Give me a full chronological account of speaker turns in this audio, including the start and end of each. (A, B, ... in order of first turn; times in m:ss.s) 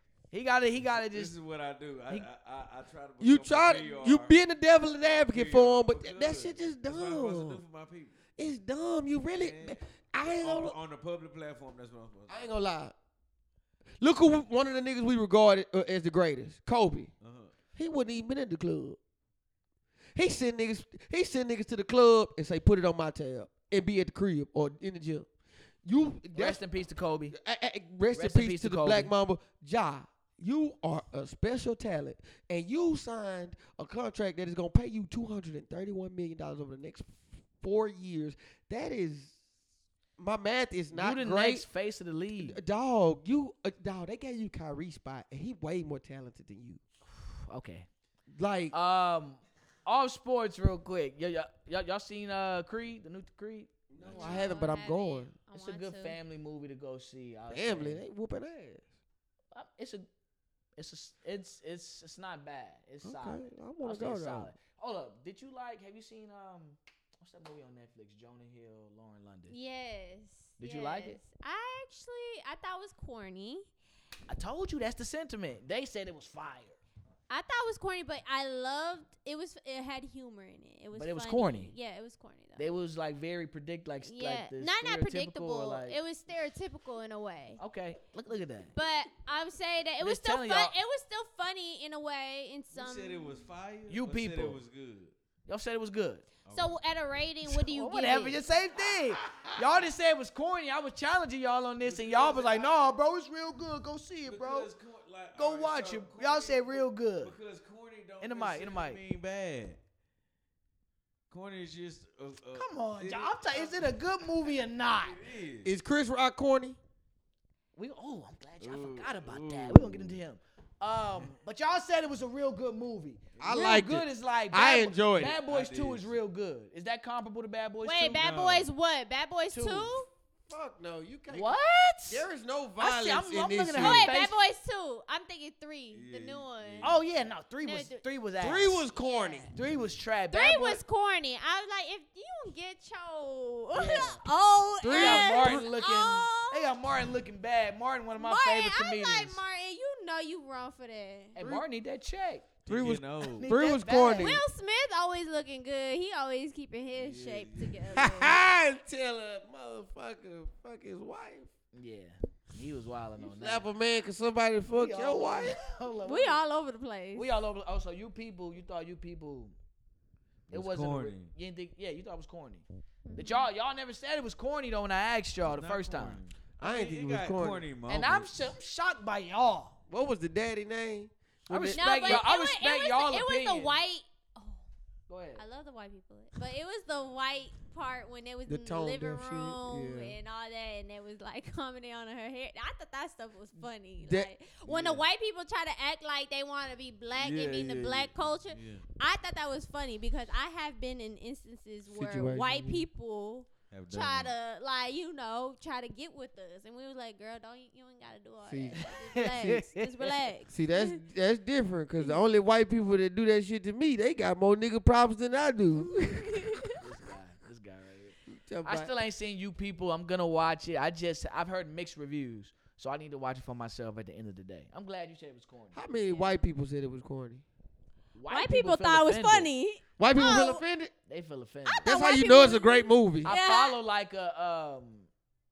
0:00.3-0:01.3 A
0:00.9-0:04.3 B
0:03.2-0:07.6 C
0:05.0-0:08.2 B
0:08.4-0:10.8 C
0:09.3-0:12.5 B
0:12.3-0:12.9 C
0:14.0-0:17.1 C
0:17.2-0:17.5 B
0:17.8-0:19.0 C
0:20.2-0:25.3 C
0:25.8-0:26.6 C
0:26.3-0:27.3 A
0:27.3-0:39.4 C
0:28.1-0:29.1 A
0:40.2-0:41.6 C
0:40.9-0:42.6 A
0:42.4-0:46.8 C
0:47.1-0:47.9 A
0:48.3-0:48.7 C
0:48.7-0:53.7 A
0:53.9-0:55.3 C
0:54.0-0:54.5 B
0:54.1-0:56.2 D
0:55.5-0:58.0 A
0:57.5-0:58.8 C
0:59.5-1:00.1 A
1:00.8-1:09.5 A
1:03.0-1:04.5 C
1:09.5-1:13.7 D
1:10.6-1:11.2 A
1:14.3-1:16.8 A
1:17.3-1:22.7 D
1:20.9-1:21.7 A
1:22.6-1:26.0 A
1:24.0-1:27.6 D
1:27.6-1:28.7 A
1:28.7-1:33.5 D
1:30.0-1:30.7 A
1:32.7-1:35.1 B
1:33.9-1:34.6 A
1:35.5-1:36.2 A
1:36.4-1:36.8 B
1:36.5-1:38.4 D
1:37.4-1:44.7 A
1:38.8-1:39.6 B
1:41.8-1:42.9 B
1:44.2-1:49.8 B
1:45.3-1:47.3 A
1:48.2-1:49.0 A
1:51.3-1:54.2 B
1:52.5-1:55.2 A
1:55.0-1:55.7 B
1:55.6-1:56.8 C
1:57.8-2:08.2 A
1:58.6-2:00.2 B
2:03.4-2:03.7 B
2:03.4-2:05.4 C
2:05.2-2:06.2 B
2:07.8-2:10.1 D
2:08.1-2:08.7 B
2:09.5-2:09.9 A
2:10.5-2:14.1 C
2:11.3-2:12.2 A
2:12.8-2:14.3 A
2:13.8-2:17.0 D
2:15.9-2:17.0 B
2:16.8-2:18.8 A
2:17.6-2:18.0 D
2:18.4-2:19.5 C
2:18.9-2:19.5 D
2:19.5-2:20.8 A
2:20.3-2:26.8 D
2:23.7-2:24.2 A
2:24.8-2:25.6 C
2:24.9-2:29.4 A
2:28.2-2:31.4 D
2:31.4-2:32.5 A
2:31.4-2:31.6 C
2:32.6-2:33.5 B
2:32.7-2:34.4 C
2:33.4-2:34.4 A
2:34.2-2:38.4 D
2:36.9-2:38.1 B
2:37.9-2:41.5 C
2:41.7-2:43.6 A
2:43.2-2:45.6 C
2:44.7-2:46.4 A
2:46.0-2:47.3 D
2:47.1-2:49.5 A
2:50.5-2:51.3 B
2:50.5-2:56.2 A
2:53.0-2:53.5 D
2:55.4-2:58.4 B
2:56.6-2:57.6 C
2:57.9-2:59.7 A
2:59.9-3:02.2 C
3:01.5-3:03.8 A
3:01.7-3:04.6 D
3:05.1-3:05.4 A
3:05.4-3:31.0 D
3:08.5-3:10.2 C
3:14.0-3:14.9 C
3:17.2-3:18.8 B
3:21.9-3:22.8 C
3:23.7-3:24.3 B
3:28.4-3:28.8 C
3:28.8-3:30.1 A
3:30.5-3:36.7 C
3:35.9-3:36.7 D
3:36.8-3:46.0 A
3:38.3-3:38.9 C
3:45.7-3:47.4 C
3:48.1-3:49.5 A
3:48.3-3:50.6 D
3:50.0-3:50.9 C
3:51.1-3:51.9 A
3:51.6-3:53.8 D
3:51.8-3:53.3 C
3:53.2-3:55.1 A